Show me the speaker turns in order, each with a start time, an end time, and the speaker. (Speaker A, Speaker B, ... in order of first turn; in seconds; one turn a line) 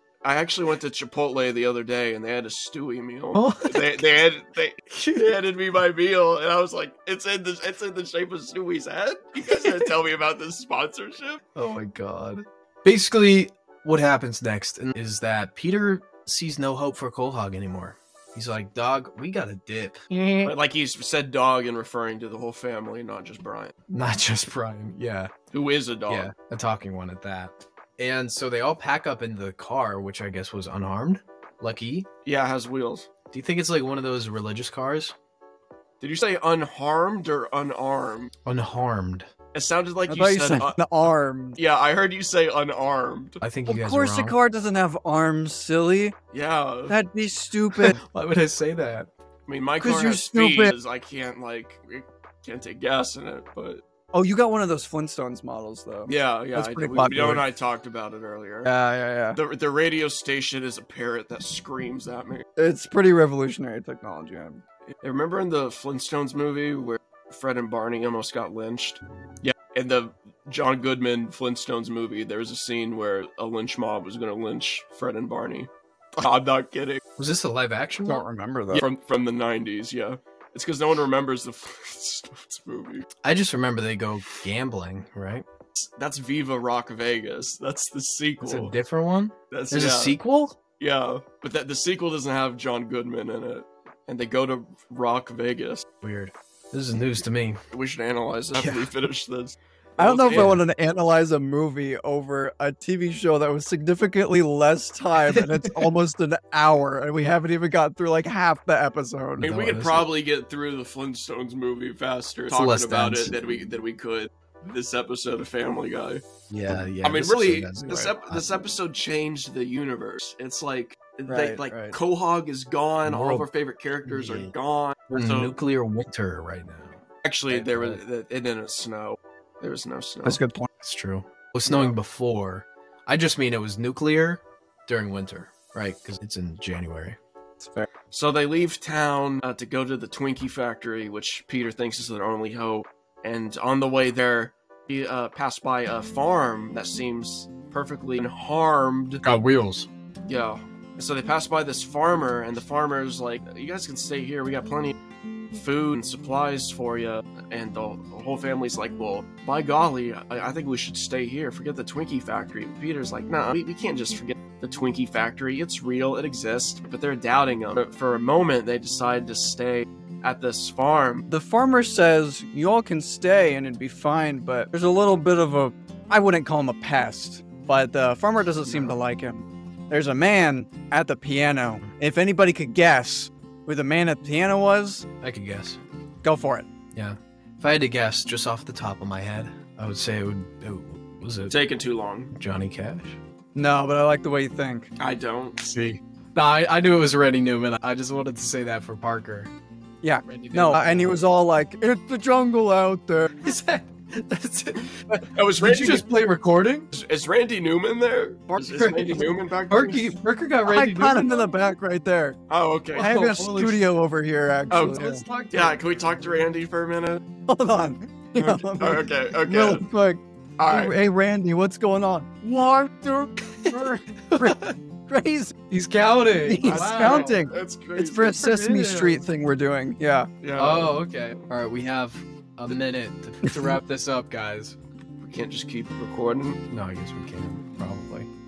Speaker A: 0.2-11.4
Speaker B: 3.3-4.1
Speaker B: 4.9-5.3
Speaker B: 9.5-9.9
Speaker B: 11.6-20.5
Speaker A: 20.4-23.8
Speaker B: 23.9-25.3
Speaker A: 25.5-26.3
Speaker B: 26.1-32.1
Speaker A: 32.2-33.1
Speaker B: 33.3-35.1
Speaker A: 36.0-38.3
Speaker B: 38.5-39.3
Speaker A: 39.5-40.8
Speaker C: 40.1-41.6
Speaker A: 41.6-43.4
Speaker B: 43.4-44.4
Speaker C: 43.7-46.2
Speaker A: 46.3-47.0
Speaker C: 46.9-48.0
Speaker B: 47.9-49.1
Speaker A: 49.5-53.8
Speaker C: 49.8-50.8
Speaker C: 54.1-57.4
Speaker A: 56.1-58.7
Speaker C: 58.6-59.4
Speaker A: 59.3-62.5
Speaker C: 62.6-64.6
Speaker A: 65.0-77.0
Speaker B: 77.2-78.2
Speaker C: 78.1-78.8
Speaker A: 78.7-83.1
Speaker B: 83.2-85.5
Speaker A: 85.8-88.8
Speaker B: 88.4-90.6
Speaker A: 89.5-90.2
Speaker A: 90.8-95.9
Speaker B: 96.0-97.6
Speaker A: 97.7-100.6
Speaker B: 98.6-98.9
Speaker C: 100.0-109.5
Speaker B: 100.3-100.6
Speaker B: 105.3-105.9
Speaker B: 109.4-110.1
Speaker A: 109.4-116.2
Speaker B: 112.5-113.3
Speaker B: 116.5-118.5
Speaker A: 117.0-125.5
Speaker C: 121.3-121.7
Speaker B: 121.7-122.0
Speaker B: 123.1-123.5
Speaker B: 124.0-124.5
Speaker B: 125.1-128.0
Speaker A: 127.2-130.4
Speaker C: 130.2-130.7
Speaker B: 130.8-137.2
Speaker A: 131.7-131.9
Speaker C: 137.6-137.9
Speaker A: 138.1-149.2
Speaker B: 149.2-149.9
Speaker A: 150.3-155.0
Speaker A: 155.5-171.2
Speaker C: 171.3-185.1
Speaker B: 178.7-179.0
Speaker B: 185.2-185.8
Speaker C: 186.2-186.7
Speaker B: 186.9-191.6
Speaker A: 191.5-192.3
Speaker B: 192.3-193.2
Speaker C: 193.6-194.9
Speaker A: 195.0-195.6
Speaker B: 195.6-199.5
Speaker C: 200.0-203.3
Speaker B: 200.3-201.2
Speaker B: 203.4-206.9
Speaker A: 205.3-206.1
Speaker A: 206.9-210.2
Speaker B: 208.6-211.5
Speaker C: 210.7-212.4
Speaker A: 212.5-213.2
Speaker C: 212.9-215.2
Speaker B: 213.0-213.8
Speaker A: 214.7-217.2
Speaker B: 214.9-215.8
Speaker C: 217.5-225.5
Speaker A: 218.4-219.8
Speaker A: 220.6-220.9
Speaker B: 223.6-224.8
Speaker B: 225.7-227.4
Speaker C: 226.4-230.3
Speaker A: 226.6-228.4
Speaker B: 228.4-229.2
Speaker A: 230.4-231.0
Speaker B: 230.6-234.8
Speaker C: 233.4-233.7
Speaker A: 235.2-236.6
Speaker B: 236.7-238.3